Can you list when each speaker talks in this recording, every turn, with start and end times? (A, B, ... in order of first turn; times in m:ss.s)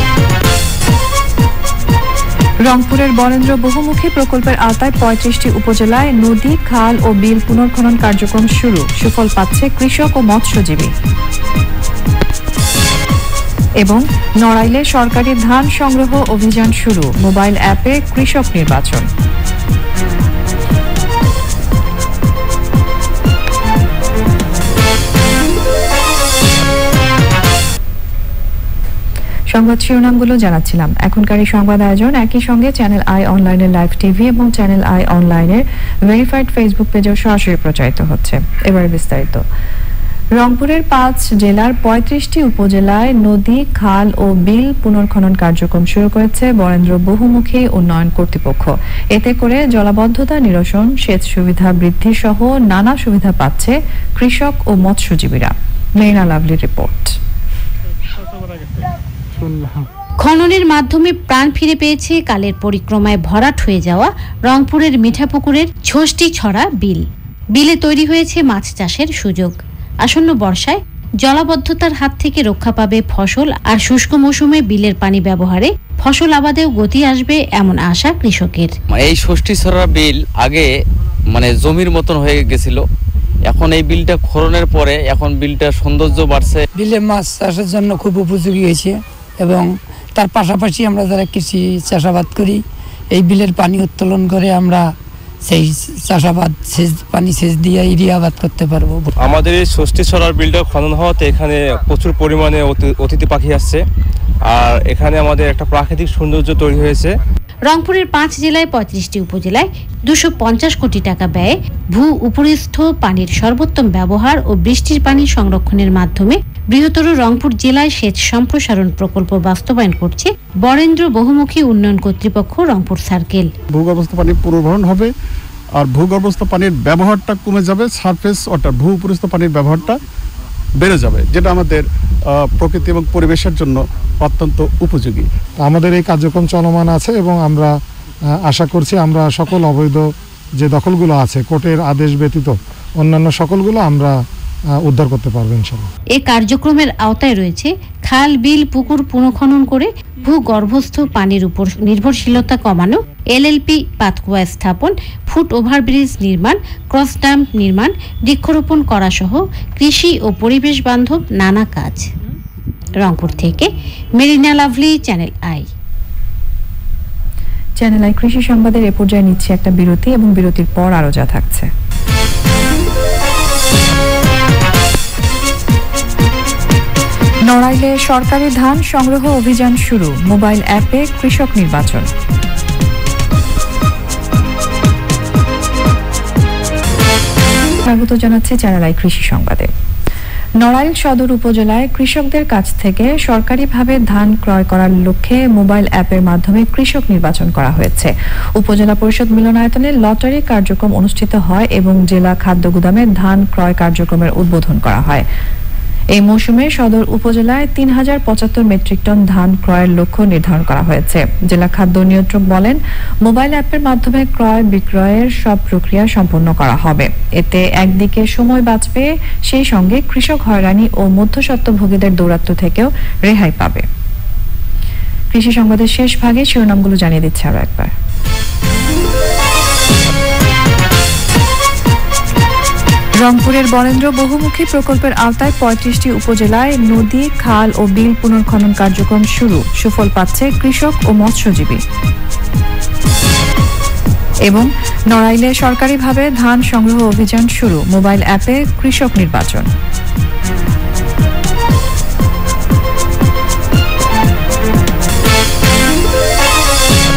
0:02.6-0:10.9 A
0:13.8-0:19.1 A
0:29.5-0:39.4 A
0:40.3-0:57.2 A
1:00.2-1:18.7 B
1:18.9-1:20.7 C
1:21.3-1:22.8 C
1:23.5-1:26.6 C
1:26.8-1:34.9 D
1:35.4-1:39.1 D
1:39.2-1:43.8 E
1:44.4-1:47.2 E
1:47.6-2:03.5 B
2:03.7-2:05.1 F
2:05.7-2:10.0 F
2:10.8-2:15.3 F
2:15.6-2:17.7 G
2:18.4-2:20.0 G
2:20.6-2:24.1 G
2:24.8-2:25.9 G
2:26.2-2:42.1 B
2:43.0-2:45.6 B
2:47.8-2:51.7 A
2:57.4-3:02.1 A
3:07.8-3:09.7 A
3:10.6-3:25.2 A
3:26.2-3:43.8 A
3:45.3-3:47.9 A
3:53.2-4:01.8 A
4:04.5-4:09.7 A